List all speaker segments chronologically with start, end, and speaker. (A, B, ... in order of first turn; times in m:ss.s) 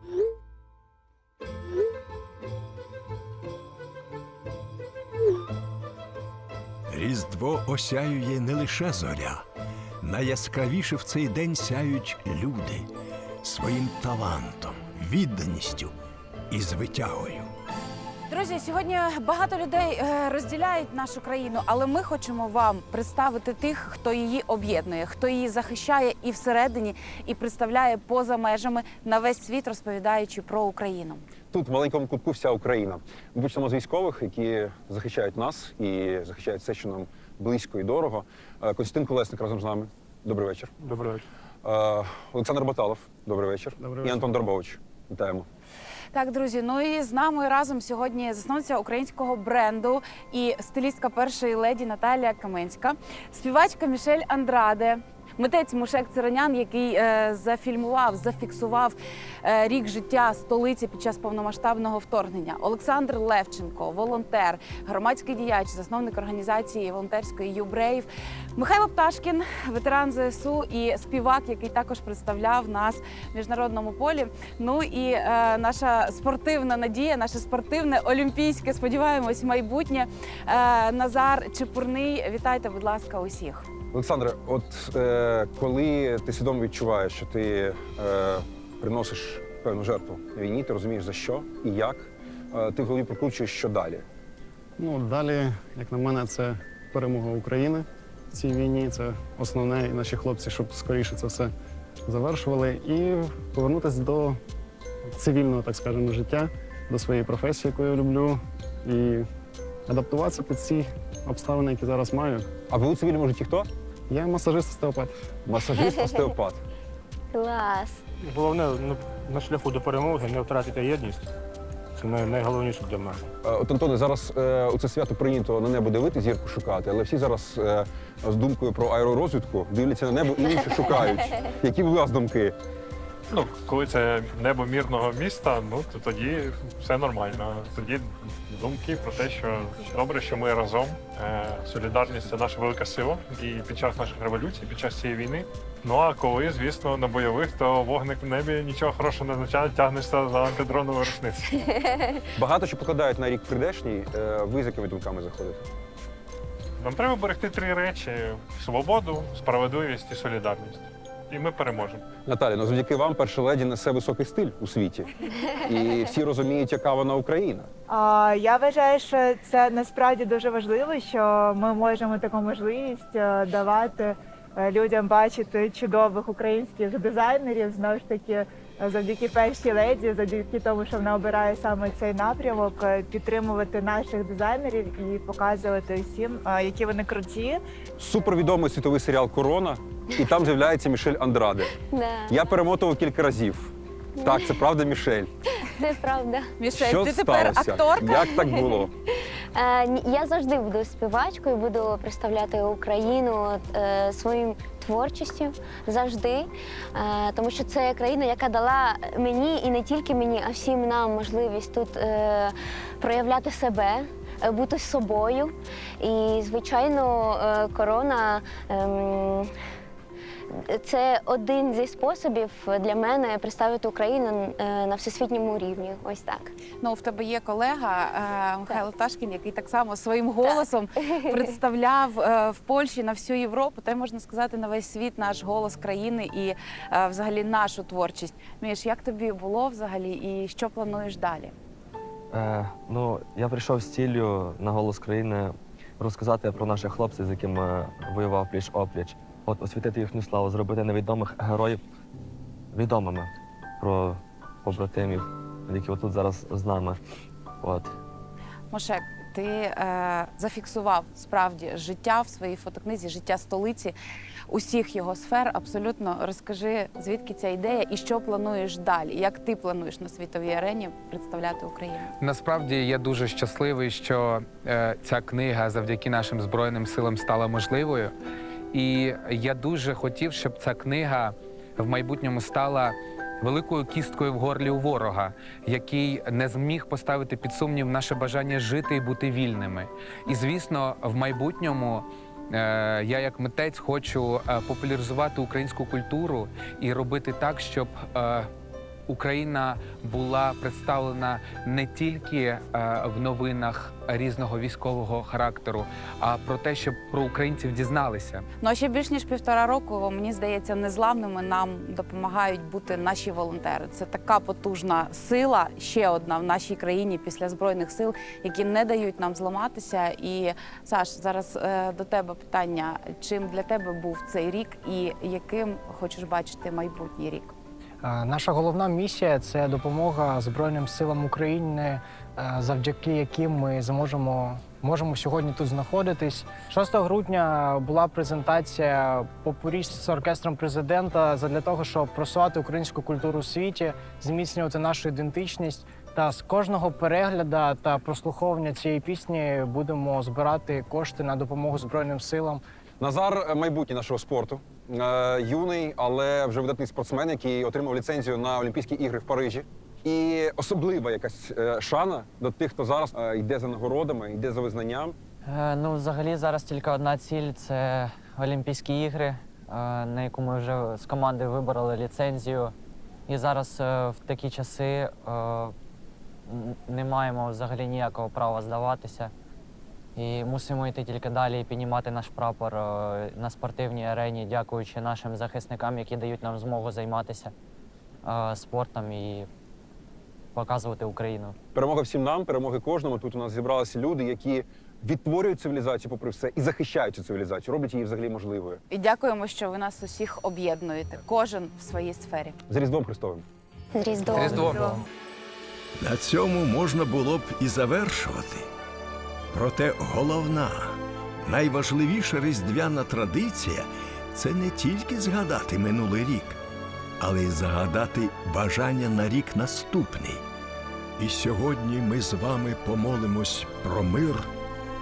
0:06.9-0:09.4 A
0:10.0-0:12.9 A
0:13.4-0:15.9 A
0:16.5-0:17.5 A
0:18.3-0:31.2 B
0:31.5-0:40.7 C
0:40.8-0:41.2 D
0:41.6-0:45.5 C
0:43.8-0:44.3 E
0:46.1-1:23.7 B
1:23.9-1:34.0 C
1:34.8-1:41.5 E
1:42.1-1:44.4 E
1:45.1-1:49.3 E
1:49.9-1:52.5 E
1:52.7-1:53.7 C
1:54.1-1:55.1 E
1:55.5-1:56.6 C
1:55.8-1:56.3 F
1:57.3-1:58.0 F
1:58.3-2:01.2 D
2:02.0-2:03.2 D
2:03.4-2:12.6 C
2:13.3-2:32.0 G
2:32.4-2:35.6 C
2:36.8-2:42.0 G
2:42.3-2:45.1 C
2:45.7-2:47.7 C
2:47.9-3:07.6 H
3:08.0-3:13.7 C
3:11.9-3:12.5 F
3:14.2-3:14.6 F
3:14.2-3:15.3 C
3:15.7-3:16.5 F
3:16.6-3:18.2 B
3:16.8-3:18.9 C
3:18.0-3:18.9 F
3:19.6-3:39.5 F
3:40.6-3:46.5 F
3:46.8-4:01.6 B
4:02.3-4:11.8 I
4:12.7-4:13.3 I
4:13.8-4:17.0 I
4:17.6-4:17.9 I
4:18.7-4:24.0 B
4:24.5-4:32.1 B
4:32.2-4:38.1 J
4:38.7-4:58.5 J
4:59.1-5:08.4 J
5:08.6-5:27.5 B
5:28.0-5:52.6 K
5:53.0-6:05.2 C
6:05.5-6:12.7 L
6:13.3-6:15.7 L
6:16.5-6:19.3 L
6:20.2-6:27.5 L
6:28.2-6:29.5 L
6:30.6-6:31.6 L
6:31.8-6:38.8 C
6:38.9-6:42.6 B
6:42.7-6:43.4 C
6:44.0-6:44.8 F
6:44.3-6:44.8 J
6:44.6-6:45.0 H
6:46.0-6:48.7 A
6:49.5-6:56.6 A
6:57.2-7:00.4 A
7:01.2-7:04.5 A